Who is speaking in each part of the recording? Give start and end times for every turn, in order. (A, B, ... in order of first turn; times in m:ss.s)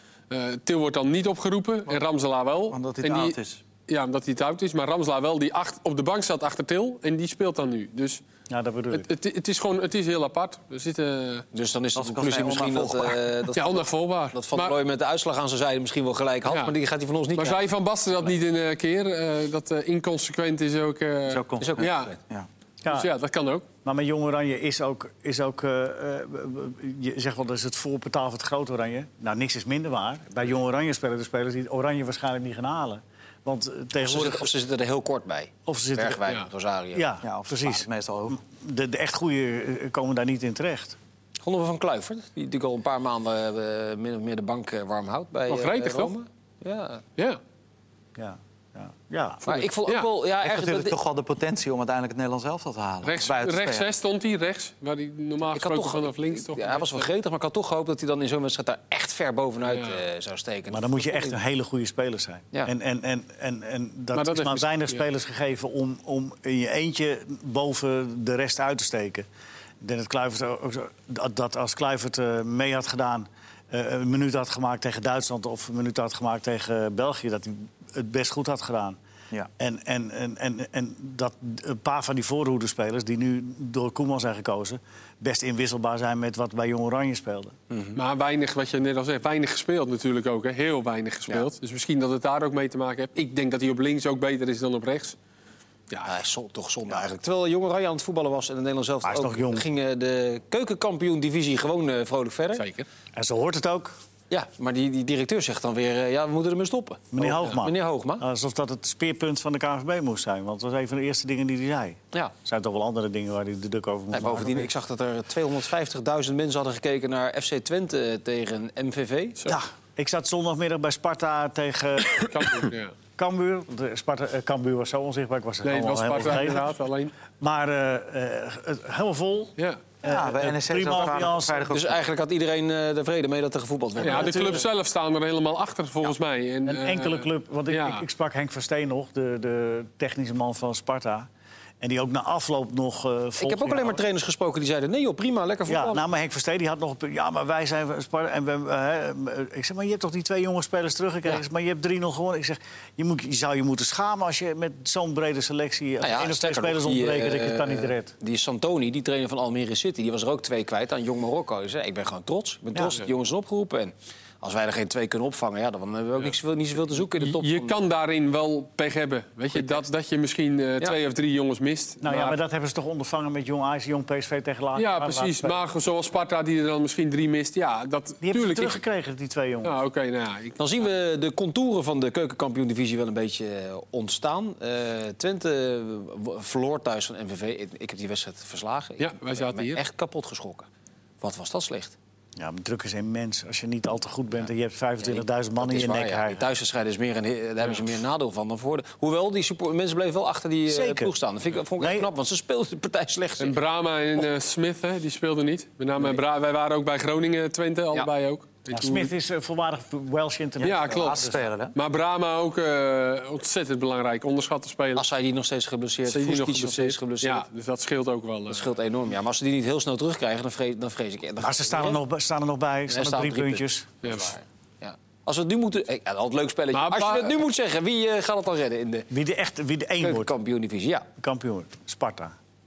0:00.3-0:08.2 A
0:02.7-0:03.6 B
0:08.5-0:09.1 C
0:08.9-0:11.4 A
0:11.5-0:17.6 D
0:12.0-0:13.2 B
0:13.5-0:14.8 A
0:16.4-0:16.7 A
0:17.3-0:22.1 A
0:21.3-0:22.5 B
0:21.6-0:22.2 D
0:22.8-0:23.1 C
0:22.9-0:23.6 A
0:23.8-0:34.5 C
0:34.0-0:37.1 D
0:35.6-0:36.2 C
0:36.9-0:41.0 C
0:37.2-0:38.4 B
0:41.4-0:47.0 D
0:45.5-0:46.1 A
0:48.1-0:49.7 C
0:49.4-0:51.0 D
0:50.4-0:53.9 B
0:53.0-0:57.0 A
0:55.5-1:01.3 D
0:59.7-1:00.0 A
1:00.7-1:09.3 C
1:04.1-1:05.0 A
1:09.8-1:19.0 C
1:19.6-1:27.6 C
1:27.7-1:28.0 D
1:28.0-1:35.2 A
1:36.0-1:42.6 D
1:39.0-1:39.6 C
1:42.5-1:42.8 A
1:43.1-1:43.9 C
1:44.3-1:48.2 D
1:47.1-1:54.7 C
1:54.1-1:59.4 D
1:59.5-2:06.7 C
2:02.2-2:02.9 A
2:05.6-2:07.1 A
2:07.4-2:11.7 C
2:10.0-2:12.0 B
2:11.7-2:14.6 D
2:14.0-2:18.0 A
2:14.0-2:14.5 C
2:16.6-2:21.3 C
2:21.8-2:24.0 C
2:23.4-2:26.0 D
2:25.7-2:38.1 C
2:36.0-2:47.8 D
2:47.2-2:52.4 A
2:52.0-2:55.6 C
2:54.8-2:58.8 A
2:58.2-2:59.8 C
2:59.6-3:00.6 A
3:00.6-3:10.7 D
3:09.0-3:09.8 A
3:11.2-3:11.9 D
3:12.4-3:16.4 C
3:15.0-3:23.6 D
3:20.6-3:21.1 C
3:21.8-3:22.1 C
3:23.4-3:29.1 A
3:28.7-3:31.4 C
3:30.6-3:31.7 B
3:30.6-3:35.0 A
3:34.9-3:37.4 D
3:36.0-3:38.7 A
3:38.5-3:42.0 D
3:41.4-3:43.9 C
3:42.9-3:49.1 D
3:44.0-3:44.3 A
3:46.7-3:47.3 A
3:49.1-3:50.3 C
3:50.0-3:51.1 D
3:51.2-3:52.3 C